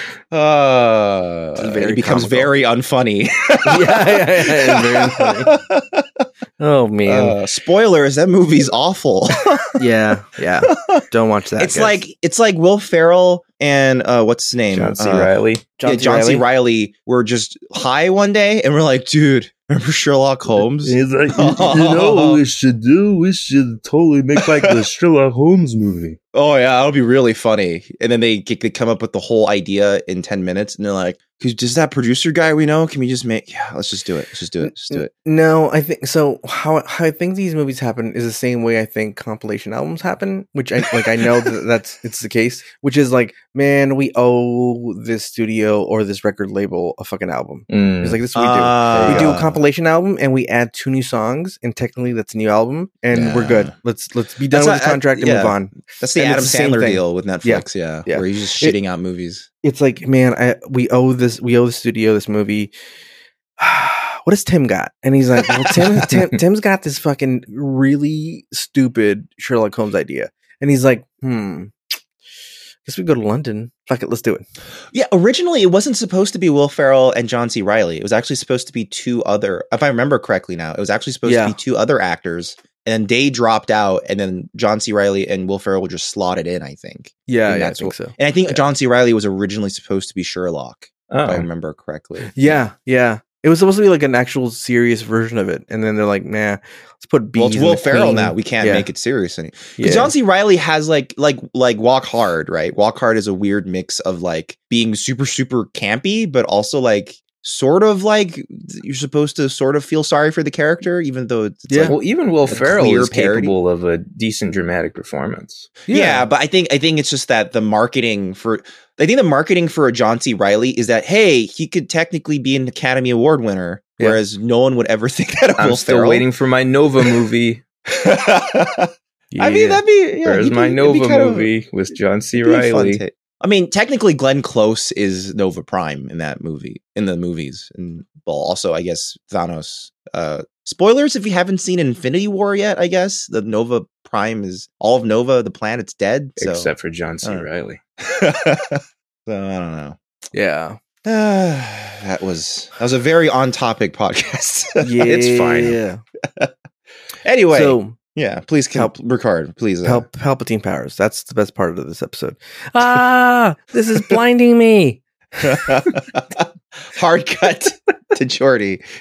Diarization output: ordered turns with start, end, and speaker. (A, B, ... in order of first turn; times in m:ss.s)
0:00.3-0:06.2 A
0:01.6-0:02.5 B
0:03.6-0:05.6 B
0:06.6-0:07.4 B
0:07.0-0:09.8 A
0:09.8-0:12.0 B
0:10.7-0:11.0 A
0:11.6-0:15.3 A
0:14.7-0:15.7 C
0:15.8-0:16.5 B
0:15.8-0:22.4 A
0:20.8-0:26.2 C
0:24.4-0:24.8 A
0:26.3-0:35.1 A
0:34.6-0:58.8 B
0:47.7-0:48.2 C
0:48.4-0:49.6 A
0:48.9-0:49.3 C
0:53.1-0:53.7 A
0:54.5-0:59.5 A
0:59.6-1:02.7 B
1:03.6-1:11.7 B
1:12.8-1:14.4 B
1:14.9-1:32.6 A
1:21.2-1:21.6 B
1:27.3-1:28.6 B
1:31.1-1:31.5 C
1:32.3-1:38.9 B
1:37.4-1:53.6 A
1:39.8-1:40.1 B
1:51.7-1:52.0 B
1:51.8-1:55.7 C
1:55.9-1:56.3 B
1:55.9-2:06.3 A
2:05.6-2:07.6 C
2:07.9-2:11.5 A
2:09.3-2:09.8 B
2:10.2-2:13.0 C
2:12.4-2:26.7 A
2:26.4-2:27.8 C
2:28.0-2:30.0 A
2:30.3-2:30.8 B
2:31.0-2:35.0 A
2:34.8-2:36.0 B
2:35.0-2:35.8 C
2:37.2-2:40.1 A
2:37.5-2:38.0 B
2:39.8-2:45.6 B
2:45.4-2:48.9 A